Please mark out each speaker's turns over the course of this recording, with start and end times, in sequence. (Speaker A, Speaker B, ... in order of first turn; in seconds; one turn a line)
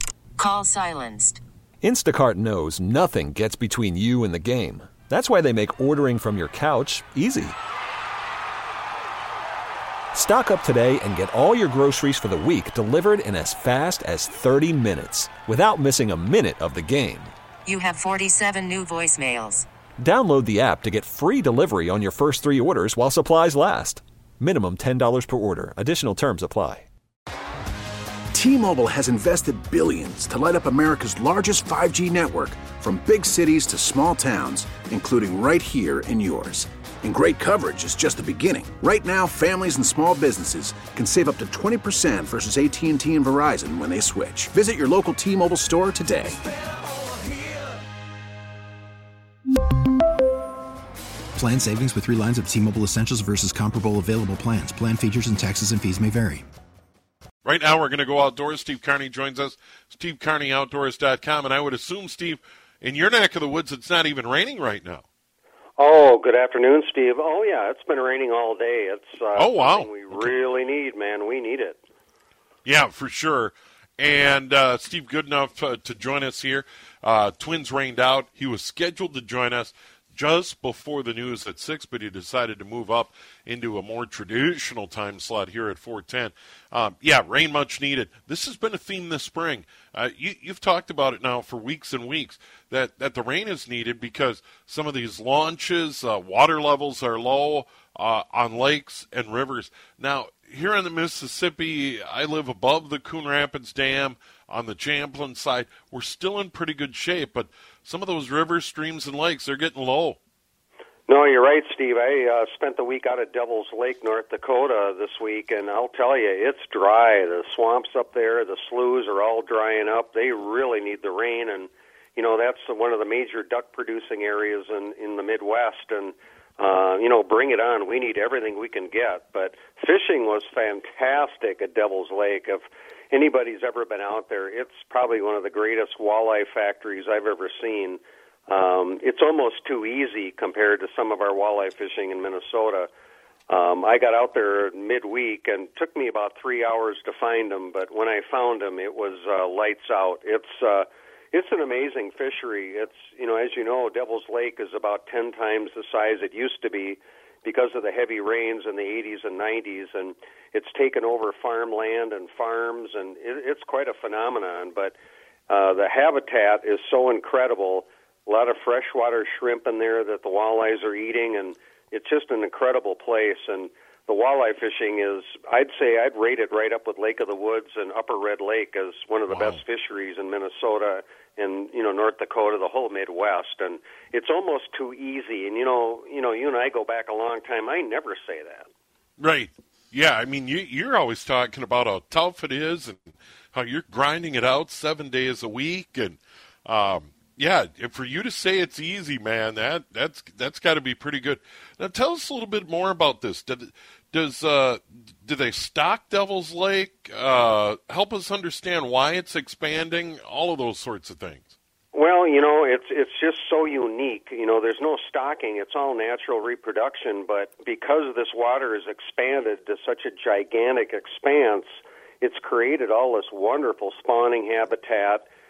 Speaker A: 0.4-1.4
Speaker B: 1.8-7.5
Speaker B: 10.1-17.3
Speaker A: 17.6-19.7
Speaker B: 20.0-26.9
Speaker C: 28.3-46.3
Speaker D: 51.3-56.4
Speaker E: 57.4-65.0
Speaker F: 65.8-71.8
Speaker E: 69.3-70.3
Speaker E: 72.6-110.2
Speaker F: 111.1-142.9
Speaker F: 143.5-164.9
Speaker F: 165.5-188.7
Speaker E: 179.3-179.6
Speaker E: 189.2-211.5
Speaker F: 211.9-225.2